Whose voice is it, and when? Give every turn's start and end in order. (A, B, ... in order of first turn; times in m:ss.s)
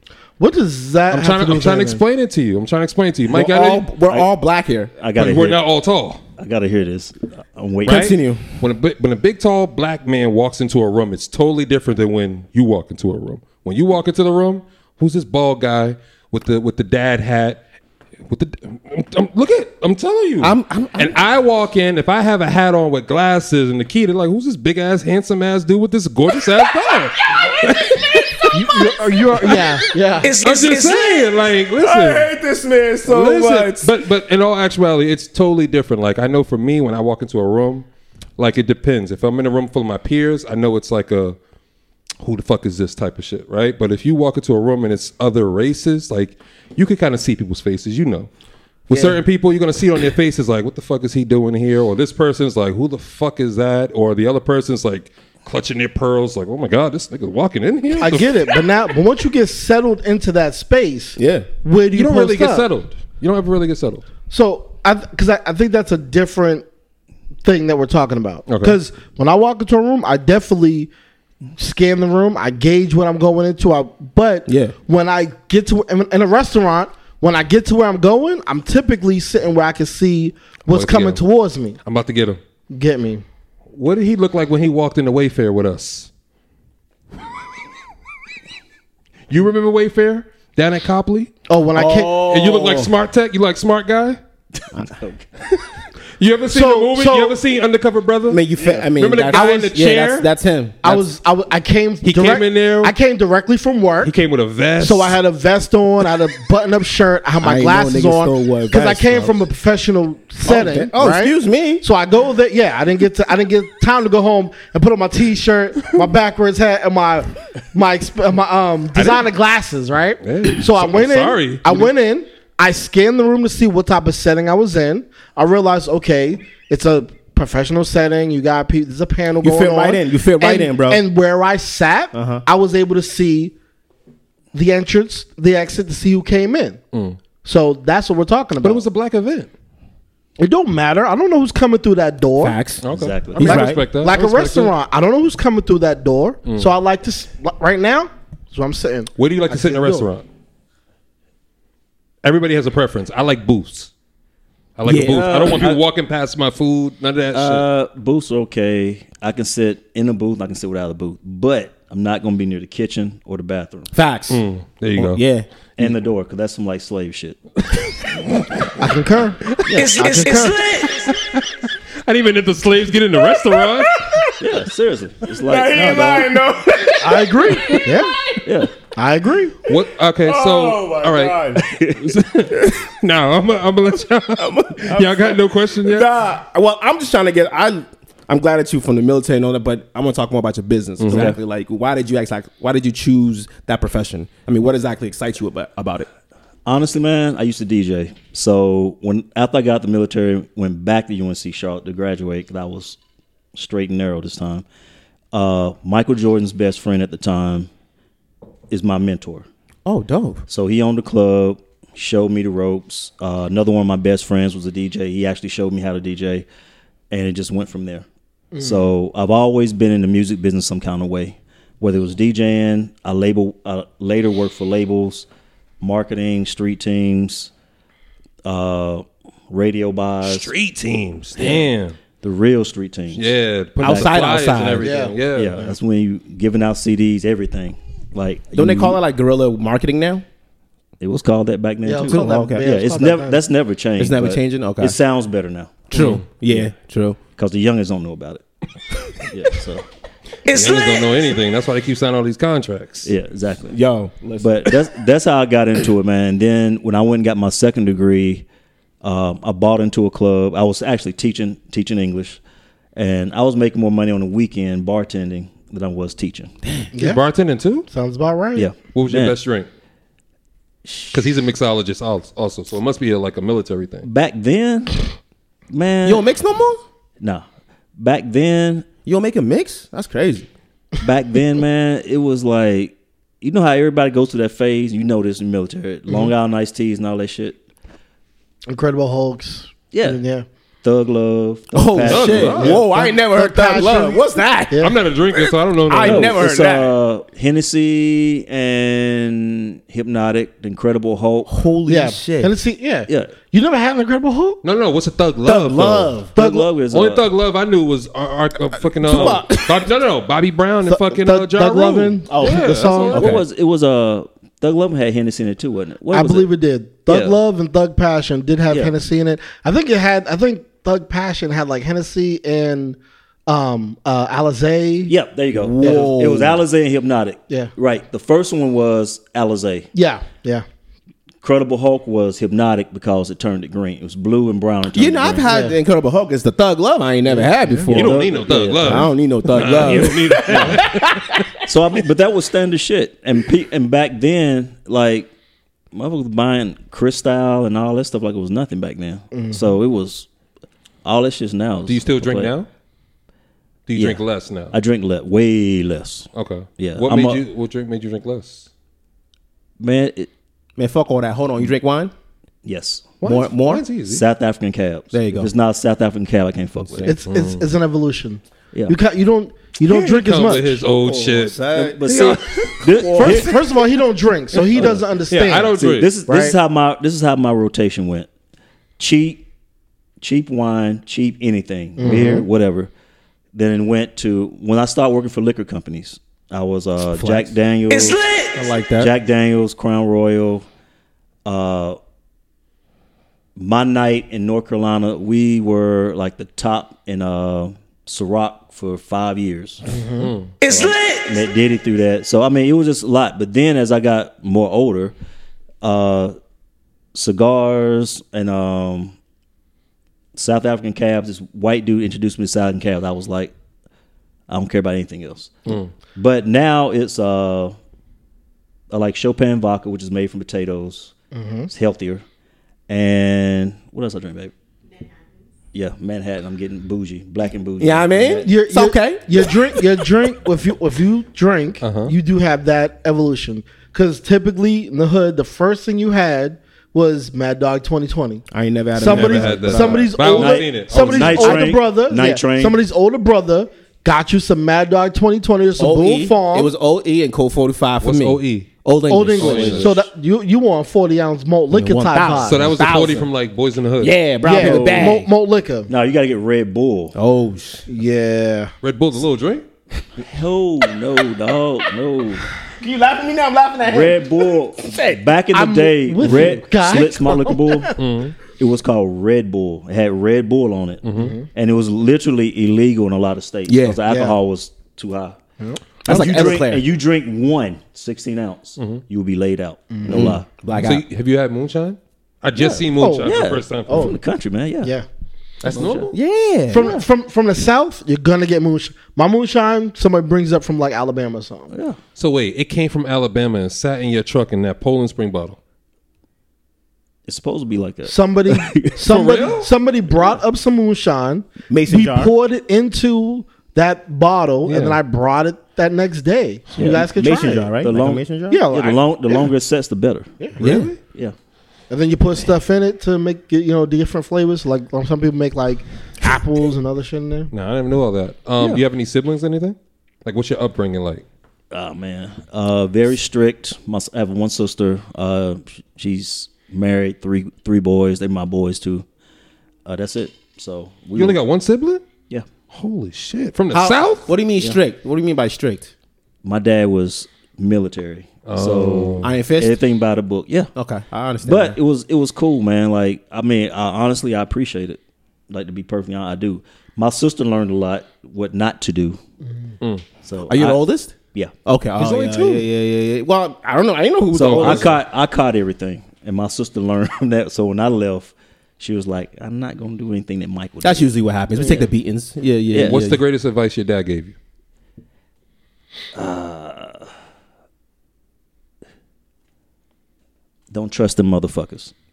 0:00.4-0:02.0 A
0:01.1-0:03.9 B
0:03.3-0:04.9 C
0:05.0-0:05.6 D
0:05.2-0:06.2 B
0:06.4-0:08.2 D
0:07.8-0:08.4 C
0:07.9-0:17.6 B
0:18.3-0:28.5 B
0:20.4-0:21.2 C
0:27.8-0:28.5 C
0:28.5-0:30.3 A
0:30.2-0:31.3 E
0:30.4-0:32.3 B
0:31.8-0:33.9 C
0:33.0-0:37.9 B
0:38.4-0:41.4 B
0:42.2-0:48.3 B
0:48.9-0:58.4 B
0:48.9-0:49.2 A
0:58.0-1:02.7 A
1:01.2-1:01.5 C
1:01.9-1:04.0 B
1:04.3-1:06.7 A
1:07.4-1:10.9 A
1:08.5-1:08.8 B
1:11.6-1:21.8 A
1:14.5-1:14.7 C
1:20.7-1:21.2 B
1:21.8-1:22.4 B
1:22.7-1:23.2 A
1:23.7-1:26.1 B
1:29.3-1:31.3 B
1:31.5-1:32.3 A
1:31.8-1:32.8 C
1:32.2-1:34.2 B
1:34.9-1:35.3 D
1:36.2-1:38.4 B
1:36.5-1:37.4 A
1:38.3-1:41.0 C
1:39.0-1:40.3 B
1:39.3-1:39.6 A
1:40.8-1:44.1 A
1:42.0-1:43.0 B
1:44.0-1:45.2 B
1:44.8-2:13.5 A
1:47.4-1:49.4 C
1:50.4-1:51.8 C
1:59.0-1:59.2 B
2:00.2-2:01.9 B
2:09.4-2:11.0 C
2:12.1-2:12.4 C
2:14.5-2:16.8 A
2:16.9-2:17.2 B
2:17.4-2:18.8 A
2:18.6-2:19.5 B
2:20.4-2:22.6 A
2:22.4-2:22.8 C
2:22.8-2:24.7 B
2:22.9-2:23.6 D
2:23.4-2:23.8 C
2:23.4-2:30.1 A
2:29.2-2:30.2 B
2:32.2-2:33.9 B
2:34.8-2:37.6 B
2:34.8-2:35.5 C
2:35.0-2:35.8 D
2:37.3-2:43.9 D
2:43.9-2:44.4 C
2:44.3-2:45.2 B
2:45.0-2:45.5 C
2:45.8-2:47.4 D
2:48.8-2:49.4 A
2:49.7-2:50.0 D
2:49.7-2:51.0 E
2:50.0-2:50.6 A
2:51.0-2:51.5 B
2:52.0-2:54.1 B
2:53.6-2:54.4 C
2:54.4-2:56.4 D
2:55.4-2:58.0 C
2:57.0-2:58.1 A
2:58.4-2:58.7 D
2:59.0-2:59.6 A
2:59.7-3:01.6 C
2:59.7-3:06.1 B
3:01.8-3:02.0 D
3:04.4-3:16.1 C
3:11.0-3:11.4 B
3:11.1-3:11.4 D
3:16.7-3:23.0 D
3:23.5-3:24.6 D
3:25.3-3:27.7 D
3:28.7-3:29.5 D
3:29.9-3:30.4 C
3:30.5-3:36.5 D
3:37.1-3:38.1 D
3:38.5-3:38.9 A
3:38.6-3:45.3 D
3:45.8-3:47.5 D
3:48.4-3:50.5 D
3:50.2-3:52.0 B
3:51.4-3:51.7 D
3:52.2-3:53.3 D
3:53.2-3:55.6 B
3:53.8-3:54.2 D
3:53.8-3:54.9 C
3:54.8-3:55.2 A
3:55.3-3:59.0 D
3:58.5-4:00.2 C
4:01.0-4:05.9 D
4:01.8-4:03.4 A
4:02.1-4:02.6 C
4:04.0-4:05.0 C
4:05.9-4:07.2 C
4:05.9-4:06.6 B
4:07.4-4:08.4 D
4:09.3-4:09.8 D
4:10.5-4:11.2 E
4:10.5-4:13.1 B
4:13.0-4:13.8 D
4:13.7-4:14.9 C
4:14.4-4:18.5 D
4:19.0-4:22.4 D
4:23.0-4:26.5 D
4:26.6-4:26.9 C
4:26.9-4:27.2 A
4:27.0-4:27.9 B
4:27.9-4:28.7 A
4:28.6-4:29.4 D
4:28.9-4:29.7 B
4:30.8-4:31.3 D
4:31.1-4:34.1 B
4:34.0-4:35.0 D
4:35.7-4:36.2 D
4:36.0-4:36.8 C
4:37.2-4:37.4 D
4:38.0-4:38.9 D
4:39.0-4:40.5 C
4:41.0-4:47.6 D
4:48.7-4:50.4 A
4:49.9-4:50.2 D
4:50.8-4:52.8 D
4:51.7-4:56.9 C
4:52.0-4:52.8 B
4:52.6-4:55.0 A
4:54.8-4:56.4 B
4:56.0-5:01.5 D
5:01.5-5:02.5 C
5:01.9-5:04.6 A
5:03.1-5:03.3 D
5:04.6-5:06.1 B
5:05.5-5:06.2 C
5:05.5-5:07.3 D
5:06.4-5:06.7 A
5:06.9-5:13.4 B
5:09.0-5:09.9 C
5:09.1-5:09.5 D
5:10.9-5:13.3 A
5:12.4-5:13.3 C
5:13.0-5:16.5 D
5:16.1-5:25.1 A
5:17.1-5:17.4 D
5:25.1-5:29.9 D
5:25.6-5:26.6 C
5:25.8-5:26.1 A
5:29.9-5:30.6 A
5:31.4-5:35.5 D
5:35.0-5:41.4 C
5:35.5-5:35.8 A
5:37.3-5:37.7 A
5:37.8-5:41.4 B
5:37.9-5:39.1 D
5:39.6-5:40.8 D
5:41.7-5:45.3 D
5:45.9-5:50.3 D
5:49.3-5:49.8 A
5:51.0-5:52.6 D
5:51.9-5:52.7 B
5:53.9-5:54.8 B
5:54.0-5:57.4 D
5:56.4-5:58.7 B
5:59.8-6:00.3 D
6:00.8-6:02.1 C
6:02.6-6:03.2 D
6:03.2-6:04.2 B
6:03.2-6:03.8 C
6:04.1-6:07.1 D
6:05.1-6:05.5 C
6:06.8-6:07.1 C
6:07.1-6:10.8 A
6:07.3-6:07.6 B
6:09.9-6:12.4 B
6:11.0-6:13.8 C
6:11.7-6:13.6 D
6:13.2-6:16.6 A
6:15.3-6:16.1 B
6:15.7-6:18.3 D
6:19.0-6:19.5 D
6:20.2-6:22.9 D
6:22.0-6:22.4 A
6:22.0-6:22.4 C
6:23.5-6:28.2 D
6:27.2-6:27.5 C
6:27.9-6:28.7 E
6:28.6-6:29.1 C
6:29.0-6:30.7 D
6:31.5-6:32.0 D
6:33.6-6:39.9 D
6:39.9-6:40.3 A
6:40.2-6:40.5 B
6:40.6-6:41.4 E
6:40.7-6:45.1 D
6:45.8-6:46.4 D
6:47.1-6:49.2 D
6:50.4-6:53.5 D
6:54.5-6:57.8 D
6:55.7-6:55.9 B
6:58.9-7:01.1 D
7:01.3-7:01.7 A
7:01.7-7:02.2 D
7:02.9-7:04.5 D
7:05.7-7:08.5 D
7:07.8-7:09.9 C
7:08.4-7:26.7 A
7:11.8-7:12.1 B
7:18.5-7:20.1 C
7:19.0-7:21.7 B
7:20.3-7:22.8 D
7:25.8-7:30.1 C
7:28.0-7:30.0 B
7:29.1-7:32.6 A
7:31.7-7:33.3 C
7:32.4-7:34.2 B
7:34.0-7:35.2 C
7:34.4-7:35.9 A
7:34.4-7:35.3 D
7:35.9-7:37.2 D
7:37.2-7:37.8 C
7:37.9-7:38.7 A
7:38.8-7:39.6 B
7:40.2-7:42.5 D
7:42.8-7:45.2 C
7:43.9-7:55.4 D
7:45.5-7:47.7 A
7:48.0-7:48.4 B
7:51.0-7:51.3 B
7:51.2-7:51.5 A
7:53.7-7:54.0 C
7:54.1-7:54.4 A
7:56.0-7:56.8 C
7:56.0-8:00.5 D
7:58.8-7:59.0 B
7:59.9-8:00.4 A
8:00.1-8:01.0 C
8:00.7-8:04.2 B
8:02.6-8:04.2 A
8:03.2-8:04.9 D
8:05.6-8:06.2 D
8:05.6-8:07.0 C
8:05.7-8:06.2 B
8:06.7-8:11.7 A
8:11.7-8:12.0 D
8:12.2-8:15.6 B
8:17.3-8:19.1 D
8:18.1-8:27.8 A
8:19.1-8:19.7 B
8:21.7-8:22.3 C
8:24.7-8:25.0 B
8:26.8-8:27.1 D
8:26.8-8:28.7 C
8:27.8-8:31.4 D
8:28.5-8:29.4 A
8:30.6-8:30.9 C
8:30.6-8:31.0 B
8:31.9-8:37.5 A
8:37.5-8:41.2 B
8:38.6-8:38.8 D
8:41.7-8:49.1 D
8:49.8-8:51.4 D
8:51.2-8:52.0 B
8:52.7-8:54.3 B
8:53.7-8:54.0 A
8:54.3-8:55.9 C
8:56.4-9:00.7 D
8:58.5-8:59.3 B
8:59.2-8:59.8 C
9:00.8-9:01.8 C
9:01.4-9:09.2 D
9:10.2-9:11.5 D
9:10.5-9:11.1 C
9:11.6-9:15.0 C
9:12.0-9:12.6 B
9:14.3-9:21.9 D
9:14.4-9:15.0 B
9:20.8-9:23.2 C
9:22.7-9:23.0 D
9:22.8-9:24.4 B
9:26.1-9:27.1 D
9:30.7-9:32.0 D